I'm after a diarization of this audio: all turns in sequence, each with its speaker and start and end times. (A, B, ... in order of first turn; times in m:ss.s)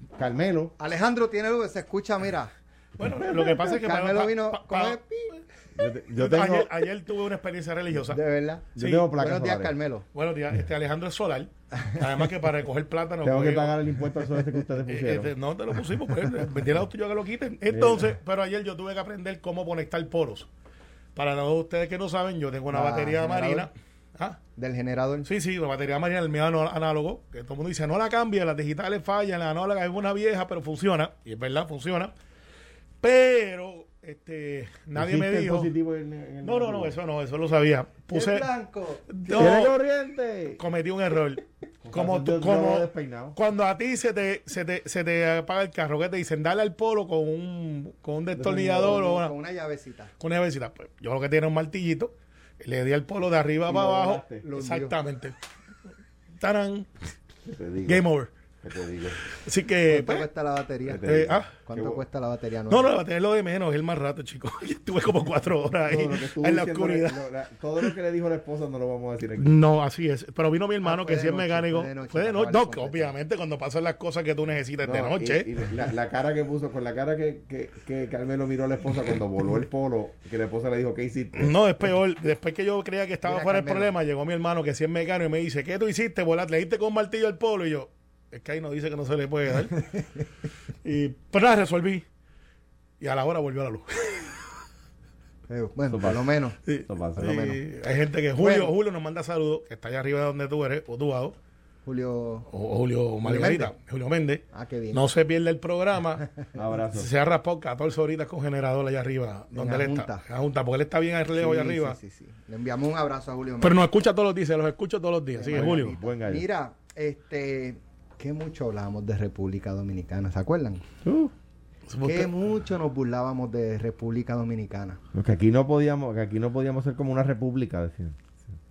0:00.1-0:00.8 A
0:00.8-0:02.5 B
0:03.0-0:05.0 C
0:03.2-0:05.4 B
0:05.8-0:06.7 A
0:06.1-0:08.2 C
0:08.0-0:10.1 B
0:08.7-0:09.8 A
0:08.8-0:09.1 C
0:10.1-0:13.7 C
0:13.2-0:15.3 A
0:14.9-0:20.5 C
0:17.7-0:18.1 A
0:21.2-0:24.4 C
0:22.7-0:23.7 B
0:24.6-0:25.3 B
0:25.2-0:32.1 C
0:33.0-0:35.7 C
0:35.0-0:37.0 A
0:36.4-0:38.5 C
0:38.1-0:39.5 B
0:39.1-0:39.7 C
0:39.3-0:40.6 A
0:40.6-0:49.3 C
0:41.8-0:43.4 A
0:48.4-0:49.0 A
0:48.5-0:50.1 B
0:50.2-0:55.4 C
0:53.7-0:54.4 A
0:54.4-0:55.0 B
0:56.4-0:56.9 C
0:57.5-0:58.0 A
0:57.8-0:58.3 C
0:58.6-0:59.2 A
0:59.3-1:00.3 C
0:59.9-1:02.9 B
1:00.8-1:02.0 A
1:01.0-1:01.5 C
1:02.7-1:07.2 C
1:05.8-1:09.5 A
1:09.4-1:15.5 C
1:10.8-1:13.1 B
1:14.8-1:21.5 A
1:21.4-1:29.9 C
1:23.2-1:23.9 B
1:30.8-1:32.1 C
1:33.0-1:34.4 C
1:35.5-1:36.6 B
1:35.9-1:36.3 A
1:36.7-1:41.4 C
1:36.8-1:37.5 A
1:37.2-1:37.6 B
1:38.4-1:38.7 B
1:41.8-1:42.5 B
1:42.5-1:46.3 C
1:43.2-1:43.7 B
1:44.5-1:45.0 B
1:46.6-1:47.1 A
1:46.8-1:52.0 C
1:49.5-1:50.2 B
1:51.3-1:53.8 B
1:53.6-1:55.9 C
1:55.3-2:00.9 B
1:55.5-1:56.5 A
2:01.0-2:01.3 A
2:01.9-2:02.3 C
2:02.0-2:05.0 B
2:05.1-2:08.4 A